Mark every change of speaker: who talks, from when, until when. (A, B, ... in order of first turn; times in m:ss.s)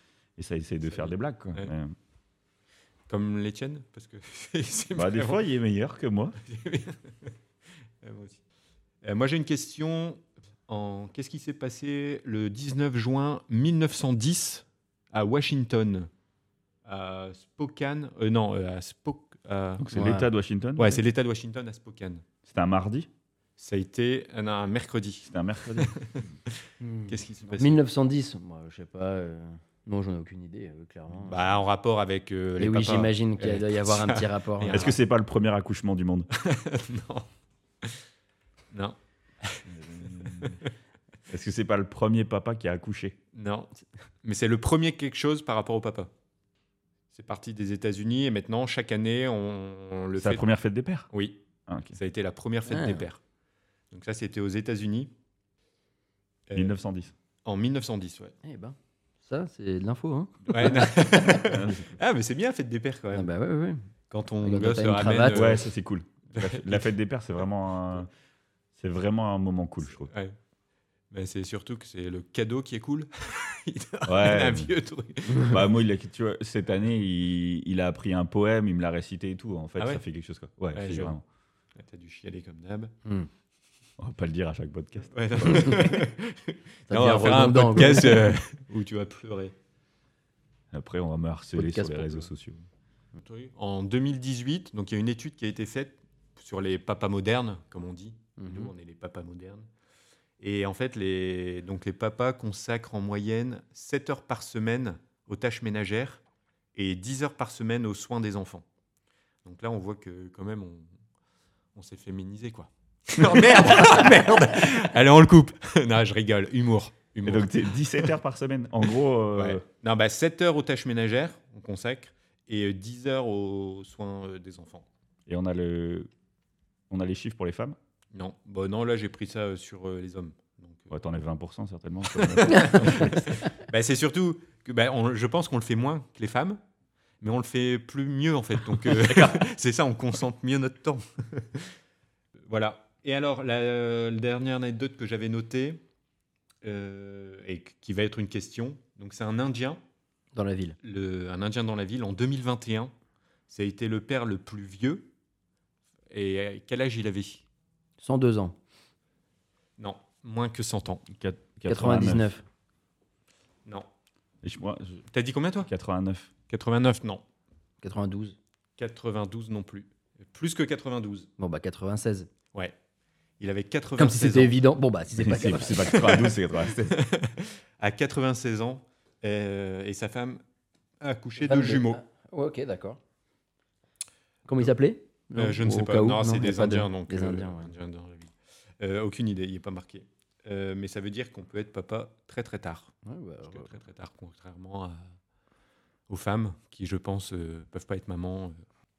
0:00.4-0:02.0 A
0:00.9-0:01.7 B
0:03.1-0:05.4 B
0:04.9-0:06.4 A
0:06.4-0:07.3 B
0:08.0-0:08.4 B
0:09.0-0:16.1 B
0:16.8-0:19.9 B
0:19.8-0:21.0 A
0:19.9-0:20.3 C
0:20.8-0:22.2 B
0:22.5-0:23.1 A
0:23.6-0:27.8 B
0:25.2-0:26.3 A
0:26.8-0:31.5 C
0:31.2-0:35.0 B
0:32.6-0:35.0 C
0:34.7-0:36.3 A
0:36.3-0:37.3 B
0:38.7-0:40.7 B
0:39.7-0:40.6 A
0:41.3-0:43.2 A
0:43.3-0:43.7 B
0:44.2-0:46.1 B
0:47.1-0:50.5 B
0:50.2-0:51.1 A
0:51.1-0:51.4 B
0:51.7-0:52.0 A
0:52.0-0:53.2 B
0:52.7-0:53.1 C
0:53.9-0:55.1 B
0:56.5-0:56.8 B
0:56.5-0:57.1 A
0:57.4-0:58.3 B
0:58.4-1:01.6 C
1:00.5-1:03.3 B
1:01.5-1:01.9 A
1:03.1-1:03.8 C
1:04.1-1:05.6 B
1:04.4-1:05.6 C
1:05.3-1:08.1 A
1:06.3-1:06.9 B
1:08.8-1:10.1 A
1:10.0-1:10.4 B
1:11.1-1:15.6 B
1:14.0-1:14.7 A
1:15.3-1:15.6 C
1:15.4-1:21.2 A
1:20.8-1:21.2 B
1:21.8-1:22.9 B
1:24.0-1:25.9 A
1:25.1-1:29.5 B
1:26.9-1:28.4 C
1:30.7-1:32.6 A
1:31.6-1:32.3 C
1:33.2-1:39.7 B
1:38.4-1:38.7 C
1:40.4-1:46.2 B
1:46.8-1:48.6 B
1:49.4-1:50.9 B
1:51.8-1:58.2 B
1:57.2-1:59.6 A
1:58.9-2:04.8 B
2:05.3-2:06.1 A
2:06.9-2:07.8 A
2:08.1-2:10.9 B
2:10.9-2:13.3 A
2:12.1-2:16.6 B
2:17.2-2:21.8 B
2:19.1-2:19.4 C
2:22.5-2:25.8 B
2:26.6-2:29.8 B
2:30.3-2:30.8 C
2:30.8-2:32.9 B
2:33.5-2:35.1 B
2:36.1-2:37.4 B
2:38.0-2:38.6 C
2:39.8-2:41.0 B
2:41.1-2:42.3 A
2:41.7-2:42.4 C
2:44.4-2:45.0 A
2:45.1-2:45.7 B
2:45.7-2:46.3 A
2:46.5-2:47.2 B
2:47.8-2:48.4 C
2:48.8-2:51.3 B
2:51.4-2:52.3 C
2:53.4-2:54.6 B
2:54.0-2:56.3 C
2:55.2-2:57.0 A
2:55.9-3:00.4 B
3:01.0-3:02.0 B
3:01.4-3:03.0 C
3:04.5-3:07.7 C
3:05.4-3:12.9 B
3:13.0-3:13.7 C
3:13.5-3:15.1 B
3:16.1-3:18.6 B